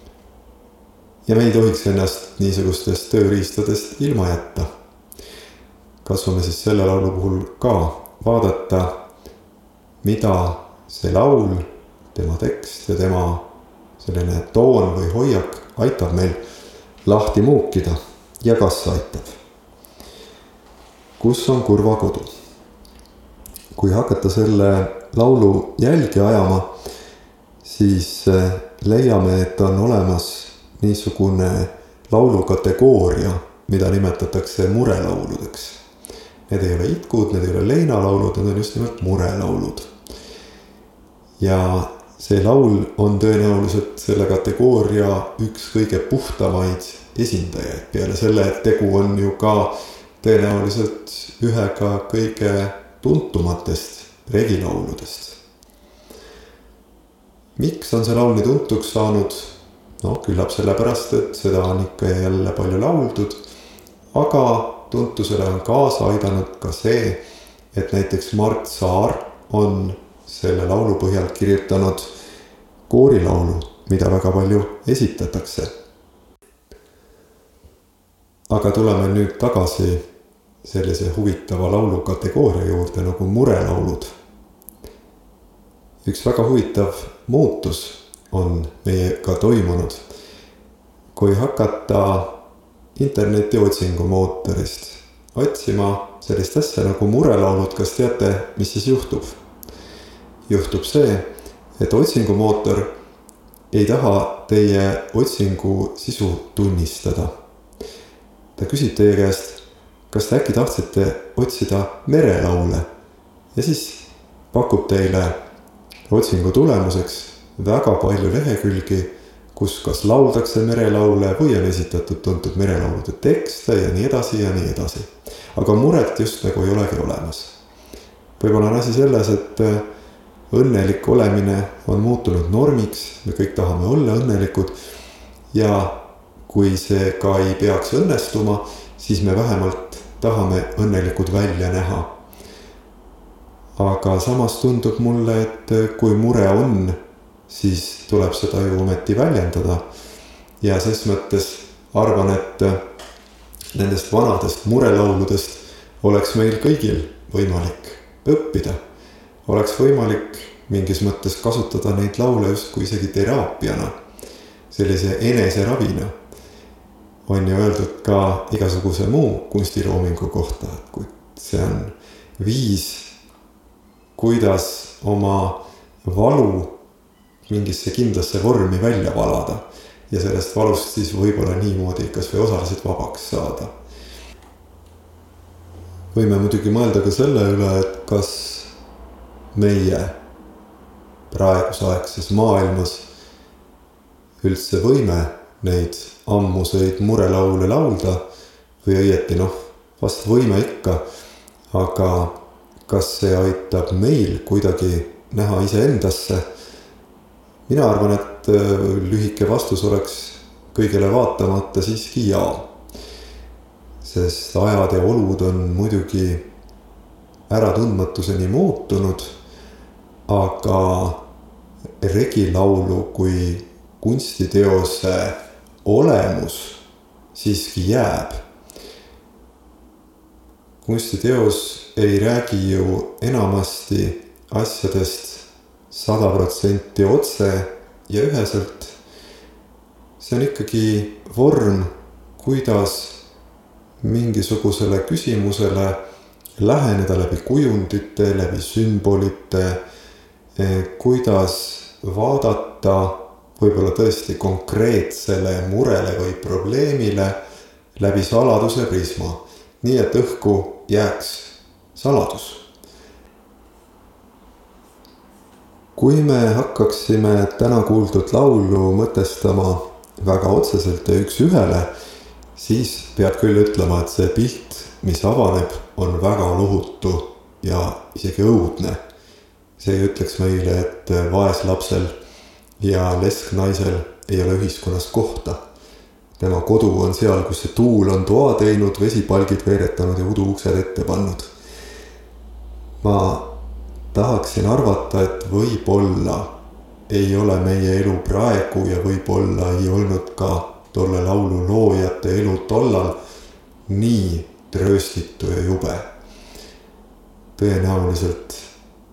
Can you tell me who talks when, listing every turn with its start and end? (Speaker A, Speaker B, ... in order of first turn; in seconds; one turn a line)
Speaker A: 1.2-4.7
Speaker A: 6.0-9.0
Speaker A: 10.0-16.4
Speaker A: 17.0-19.4
Speaker A: 21.2-22.3
Speaker A: 23.7-26.7
Speaker A: 27.6-35.8
Speaker A: 36.5-39.9
Speaker A: 41.4-55.4
Speaker A: 57.5-63.4
Speaker A: 64.1-72.1
Speaker A: 72.9-75.7
Speaker A: 78.5-80.0
Speaker A: 80.6-84.1
Speaker A: 86.0-90.0
Speaker A: 91.1-92.4
Speaker A: 92.9-99.4
Speaker A: 100.5-102.9
Speaker A: 103.7-107.3
Speaker A: 108.5-112.9
Speaker A: 113.5-115.4
Speaker A: 116.1-127.6
Speaker A: 128.4-129.9
Speaker A: 130.5-134.8
Speaker A: 135.5-142.1
Speaker A: 143.8-149.8
Speaker A: 150.6-152.8
Speaker A: 153.7-158.8
Speaker A: 159.4-163.9
Speaker A: 164.7-166.1
Speaker A: 167.2-173.1
Speaker A: 174.1-176.8
Speaker A: 177.4-183.7
Speaker A: 186.1-188.7
Speaker A: 189.5-190.2
Speaker A: 191.3-193.1
Speaker A: 194.4-198.2
Speaker A: 198.8-201.0
Speaker A: 201.7-206.4
Speaker A: 207.7-212.7
Speaker A: 214.0-216.5
Speaker A: 217.5-219.3
Speaker A: 220.3-221.2
Speaker A: 222.0-226.8
Speaker A: 227.3-228.4
Speaker A: 230.8-238.9
Speaker A: 240.2-243.2
Speaker A: 244.0-246.0
Speaker A: 246.6-249.8
Speaker A: 250.5-257.4
Speaker A: 257.9-262.7
Speaker A: 265.9-271.9
Speaker A: 272.5-279.0
Speaker A: 279.8-282.2
Speaker A: 282.8-285.6
Speaker A: 286.4-291.5
Speaker A: 293.0-293.5
Speaker A: 294.1-296.5
Speaker A: 297.1-303.2
Speaker A: 303.9-306.1
Speaker A: 307.6-308.6